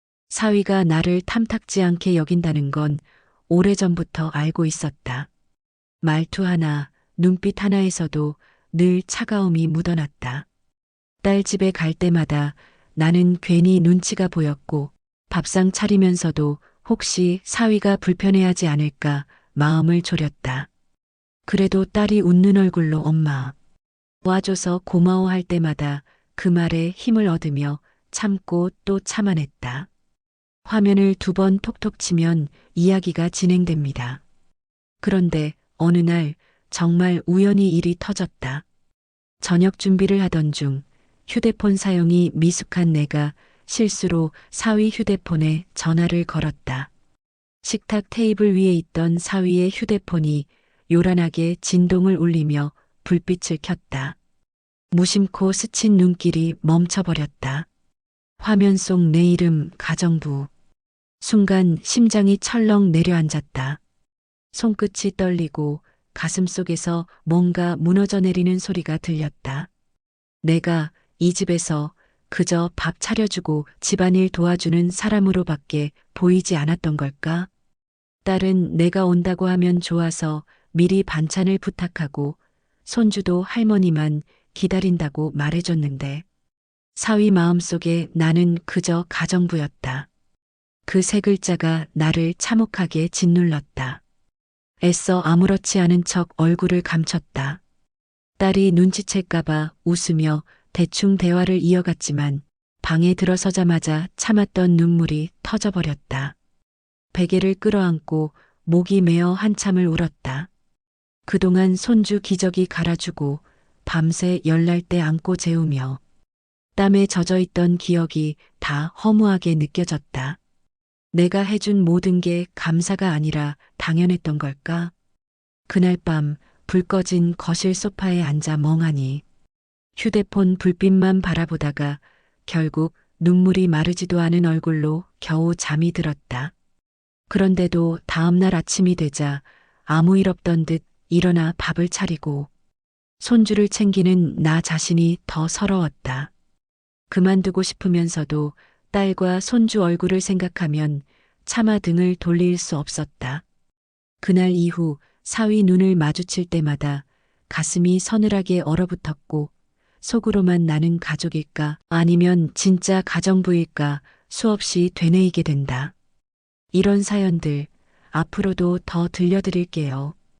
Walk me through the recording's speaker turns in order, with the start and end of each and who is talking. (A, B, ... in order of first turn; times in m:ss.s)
0:00.3-0:05.3 A
0:06.0-0:10.5 A
0:11.2-0:20.7 A
0:21.5-0:23.6 A
0:24.2-0:29.9 A
0:30.7-0:34.2 A
0:35.0-0:38.6 A
0:39.4-0:46.9 A
0:47.6-0:54.2 A
0:54.9-0:57.7 A
0:58.4-1:00.5 A
1:01.2-1:03.8 A
1:04.5-1:09.7 A
1:10.4-1:17.5 A
1:18.2-1:26.2 A
1:27.0-1:30.1 A
1:30.9-1:34.0 A
1:34.8-1:37.6 A
1:38.4-1:46.4 A
1:47.1-1:50.5 A
1:51.3-1:56.0 A
1:56.8-2:00.4 A
2:01.1-2:04.9 A
2:05.7-2:09.2 A
2:10.0-2:16.5 A
2:17.3-2:22.5 A
2:23.2-2:26.3 A
2:27.1-2:33.4 A
2:34.2-2:45.9 A
2:46.7-2:50.2 A